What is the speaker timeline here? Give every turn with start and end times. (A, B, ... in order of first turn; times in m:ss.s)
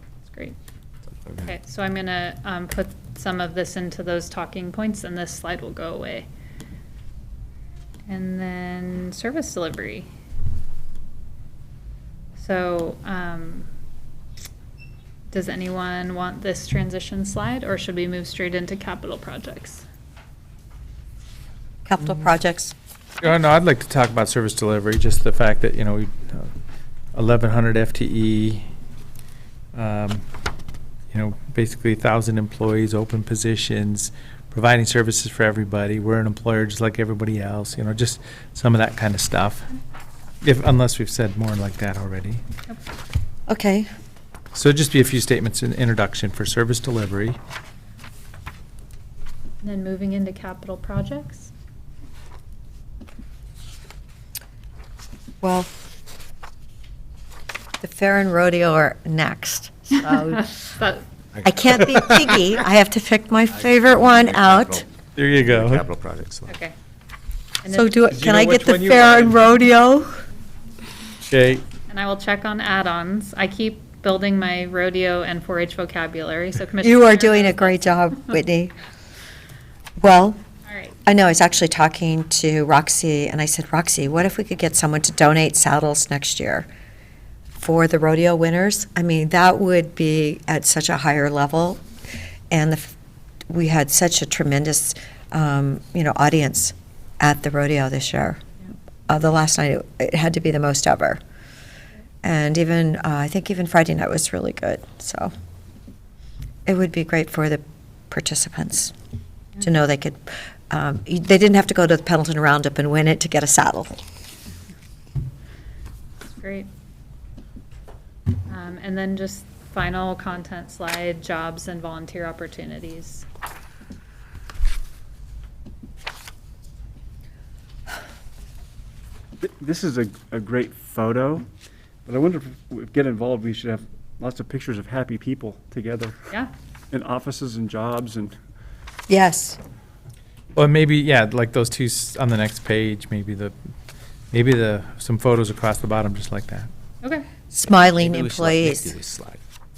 0:01.4-0:06.3 A
0:08.1-0:10.1 A
0:12.4-0:13.7 A
0:15.3-0:19.8 A
0:21.8-0:22.7 B
0:23.2-0:26.5 C
0:27.1-0:28.6 C
0:29.7-0:30.2 C
0:31.1-0:39.6 C
0:40.4-0:42.4 C
0:43.5-0:43.9 B
0:44.5-0:47.4 C
0:49.6-0:51.5 A
0:55.4-0:55.7 B
0:57.8-1:00.5 B
1:00.1-1:01.0 A
1:01.3-1:02.0 D
1:01.4-1:04.8 B
1:03.6-1:06.5 D
1:05.2-1:05.8 C
1:06.5-1:06.7 A
1:07.6-1:08.0 A
1:07.7-1:10.1 B
1:08.1-1:09.4 C
1:11.2-1:11.6 C
1:11.9-1:17.8 A
1:16.8-1:18.7 B
1:20.0-1:20.4 B
1:20.6-1:21.0 A
1:21.0-1:26.7 B
1:27.5-1:31.8 B
1:32.5-1:32.9 B
1:33.5-1:38.4 B
1:39.1-1:41.2 B
1:42.2-1:45.3 B
1:46.6-1:48.9 B
1:49.6-1:54.0 B
1:56.4-1:56.7 A
1:58.5-2:03.2 A
2:09.4-2:11.4 E
2:12.0-2:16.2 E
2:16.9-2:18.3 E
2:19.1-2:19.6 B
2:20.5-2:23.5 C
2:24.3-2:26.7 C
2:27.5-2:28.9 B
2:27.7-2:29.4 D